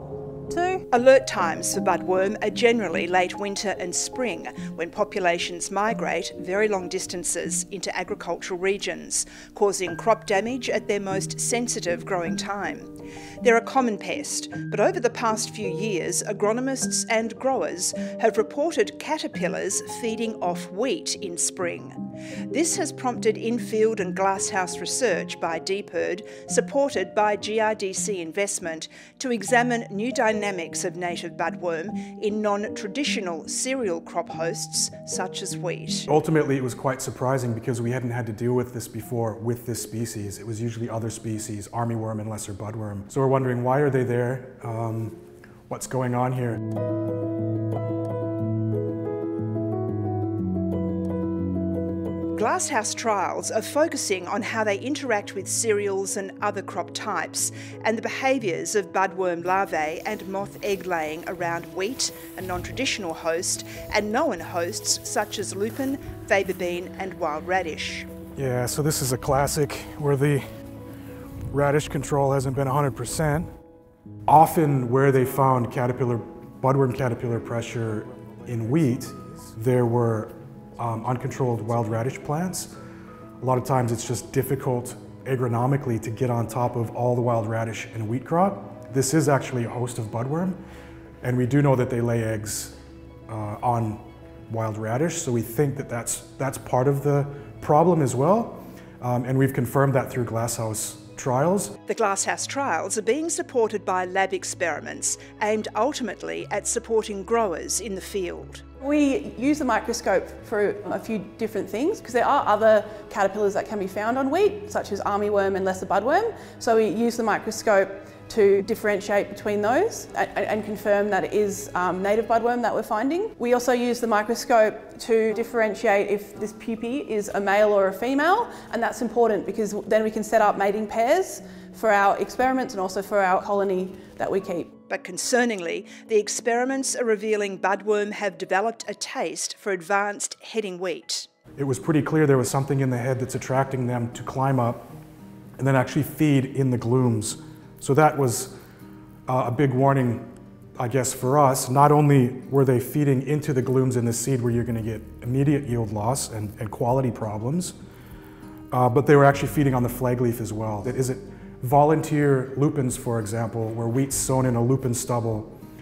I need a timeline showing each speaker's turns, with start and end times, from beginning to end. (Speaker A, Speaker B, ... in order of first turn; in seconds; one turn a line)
Speaker A: 0.5-0.8
Speaker B: 0.9-12.9
Speaker B: 13.4-22.0
Speaker B: 22.5-36.1
Speaker C: 36.1-46.6
Speaker B: 52.3-68.1
Speaker C: 68.3-70.4
Speaker C: 71.5-73.5
Speaker C: 74.3-82.7
Speaker C: 83.4-90.6
Speaker C: 91.2-92.8
Speaker C: 93.3-101.7
Speaker B: 101.9-108.6
Speaker A: 108.8-134.7
Speaker B: 134.9-141.3
Speaker C: 141.6-144.9
Speaker C: 145.6-148.6
Speaker C: 149.3-157.8
Speaker C: 158.7-165.6